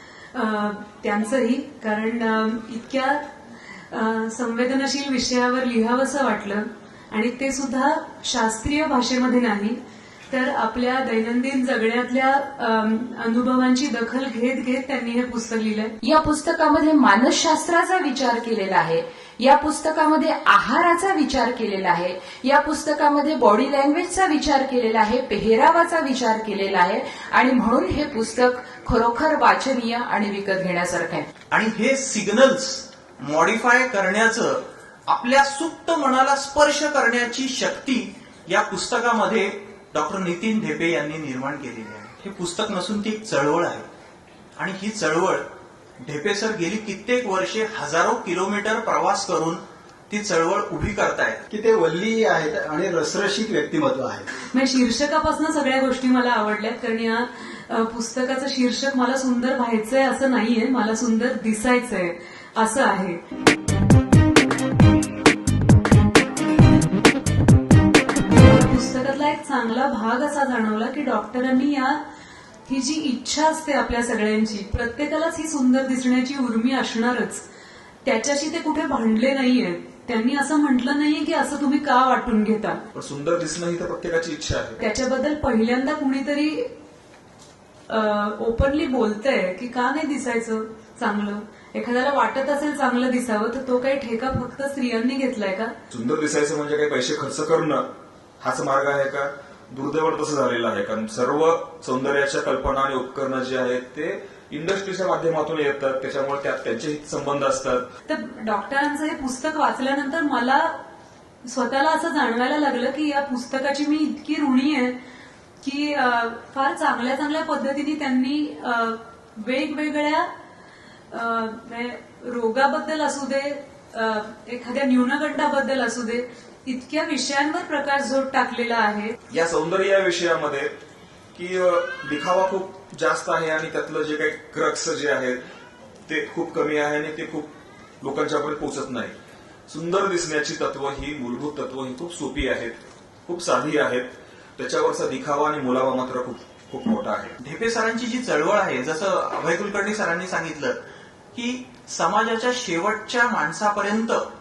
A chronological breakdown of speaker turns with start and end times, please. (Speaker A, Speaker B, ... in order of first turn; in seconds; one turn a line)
Speaker A: 0.3-3.2
Speaker A: 3.8-9.8
Speaker A: 10.3-15.9
Speaker B: 16.0-31.3
Speaker C: 31.5-43.9
Speaker C: 44.6-45.5
Speaker C: 46.0-51.4
Speaker D: 51.5-54.3
Speaker A: 54.4-63.2
Speaker A: 68.3-72.0
Speaker A: 72.7-77.4
Speaker A: 78.0-82.8
Speaker E: 82.9-84.8
Speaker A: 84.8-86.7
Speaker A: 87.9-95.7
Speaker E: 95.9-97.8
Speaker E: 98.4-107.8
Speaker A: 108.1-110.8
Speaker A: 111.4-115.0
Speaker A: 115.6-120.3
Speaker A: 121.1-129.1
Speaker E: 129.3-130.7
Speaker E: 131.3-135.4
Speaker E: 136.1-139.1
Speaker E: 139.7-147.3
Speaker C: 147.4-150.8
Speaker C: 151.3-154.2